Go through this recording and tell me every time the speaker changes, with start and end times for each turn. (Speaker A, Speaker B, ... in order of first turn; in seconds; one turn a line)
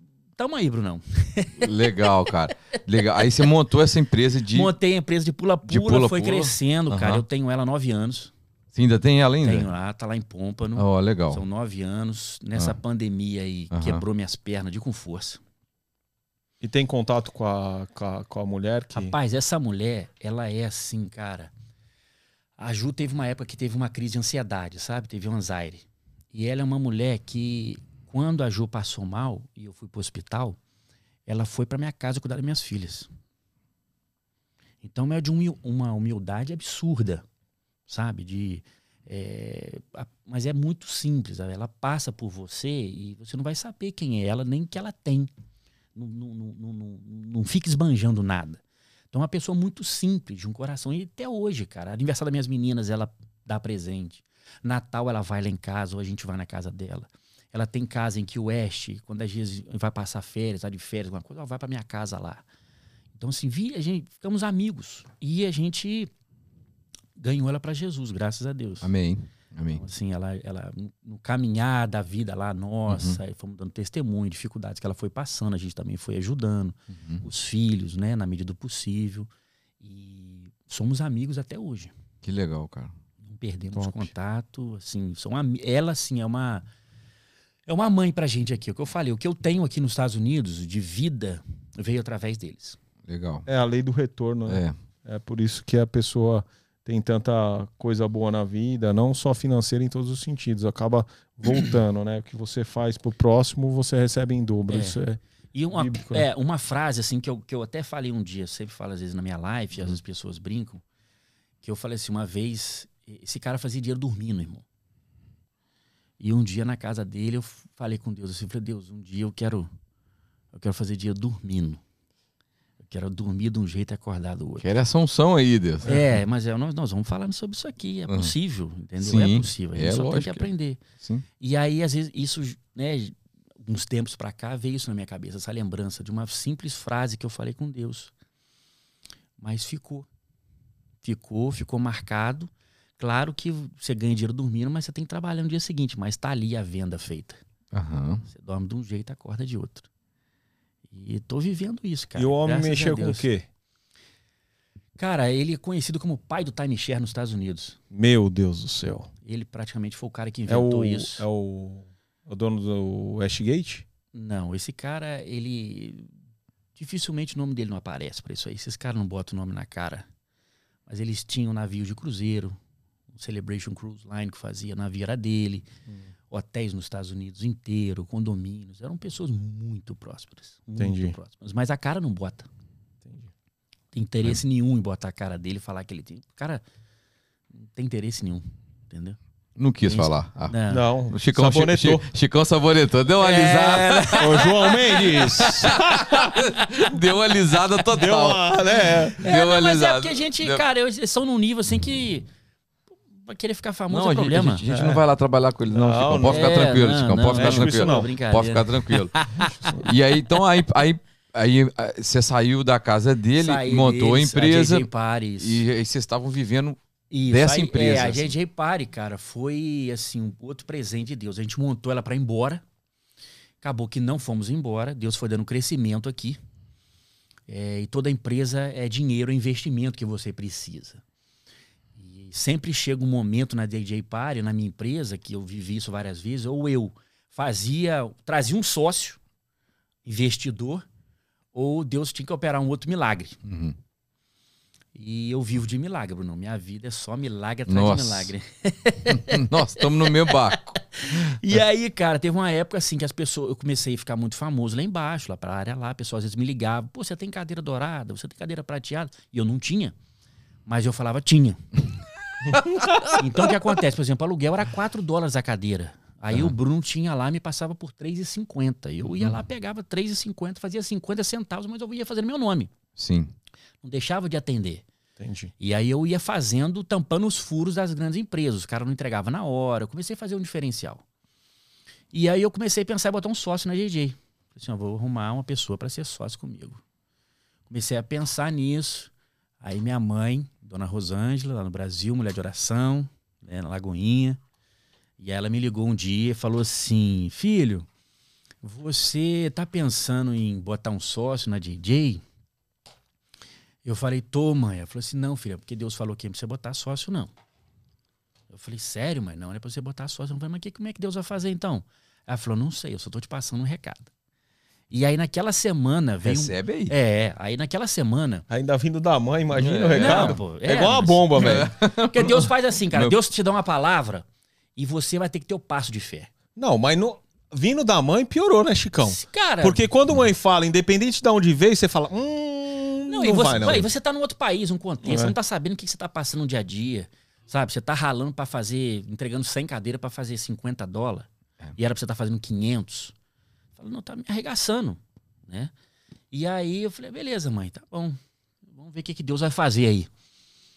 Speaker A: 0.4-1.9
Speaker B: 1.6-4.7
Speaker A: 4.5-8.3
Speaker B: 5.7-7.2
Speaker B: 8.7-9.7
Speaker A: 9.4-15.4
Speaker B: 10.8-11.4
Speaker B: 13.7-14.0
Speaker C: 16.6-19.1
Speaker A: 18.9-21.5
Speaker A: 22.6-30.6
Speaker A: 31.2-33.1
Speaker A: 34.8-37.2
Speaker A: 37.9-45.3
Speaker A: 45.9-48.6
Speaker A: 49.1-62.4
Speaker A: 63.1-66.1
Speaker A: 67.2-68.9
Speaker B: 68.8-69.8
Speaker A: 69.7-79.3
Speaker B: 72.9-73.2
Speaker B: 76.9-77.2
Speaker A: 79.8-81.9
Speaker B: 82.2-82.9
Speaker A: 83.3-86.6
Speaker C: 83.8-84.1
Speaker A: 87.7-92.8
Speaker B: 93.0-93.5
Speaker C: 93.5-105.2
Speaker B: 94.5-94.7
Speaker A: 104.7-105.0
Speaker A: 105.5-110.8
Speaker C: 105.7-106.2
Speaker A: 111.6-114.6
Speaker A: 116.2-119.7
Speaker A: 120.5-121.8
Speaker A: 122.8-124.7
Speaker B: 124.6-126.0
Speaker A: 125.8-130.8
Speaker B: 128.1-128.3
Speaker B: 129.0-131.2
Speaker A: 131.4-138.1
Speaker A: 139.4-140.1
Speaker A: 141.0-147.4
Speaker B: 147.7-148.2
Speaker A: 148.3-149.9
Speaker A: 150.9-153.2
Speaker C: 152.2-153.4
Speaker A: 155.0-157.8
Speaker C: 157.9-159.1
Speaker A: 159.2-161.2
Speaker C: 160.5-163.8
Speaker A: 164.1-166.1
Speaker A: 166.7-170.1
Speaker A: 170.9-172.6
Speaker A: 173.1-175.7
Speaker A: 176.3-182.5
Speaker C: 180.8-181.2
Speaker C: 183.0-183.3
Speaker A: 183.9-186.6
Speaker A: 187.6-189.2
Speaker B: 189.6-190.6
Speaker A: 189.8-190.8
Speaker C: 190.7-192.1
Speaker B: 191.1-200.6
Speaker A: 193.2-195.8
Speaker C: 194.1-196.4
Speaker A: 196.6-196.9
Speaker C: 197.9-199.2
Speaker A: 199.2-202.3
Speaker A: 203.2-204.6
Speaker B: 203.9-214.9
Speaker C: 204.7-205.0
Speaker C: 205.7-206.8
Speaker A: 206.2-209.7
Speaker C: 207.3-208.1
Speaker C: 209.4-209.8
Speaker A: 213.4-215.6
Speaker B: 215.4-216.8
Speaker A: 217.1-222.6
Speaker B: 217.3-218.3
Speaker A: 223.6-226.4
Speaker A: 227.5-231.0
Speaker A: 232.0-239.2
Speaker A: 240.0-240.8
Speaker A: 241.5-243.4
Speaker B: 243.4-243.8
Speaker A: 244.9-259.9
Speaker B: 247.7-248.3
Speaker B: 249.1-251.6
Speaker A: 260.6-261.7
Speaker B: 262.5-263.2
Speaker A: 263.0-272.7
Speaker B: 272.9-273.3
Speaker A: 273.8-274.8
Speaker C: 275.2-275.5
Speaker A: 275.6-281.0
Speaker A: 282.1-286.8
Speaker A: 287.7-294.4
Speaker A: 295.2-297.9
Speaker A: 298.6-302.2
Speaker A: 303.8-307.3
Speaker A: 308.5-314.1
Speaker A: 314.9-318.4
Speaker B: 316.2-316.9
Speaker C: 318.5-321.7
Speaker B: 319.5-320.4
Speaker A: 319.9-324.2
Speaker B: 321.3-323.1
Speaker A: 324.8-326.3
Speaker C: 326.6-333.9
Speaker A: 329.0-329.8
Speaker A: 333.1-343.1
Speaker C: 335.0-335.3
Speaker A: 343.8-345.7
Speaker A: 346.3-350.1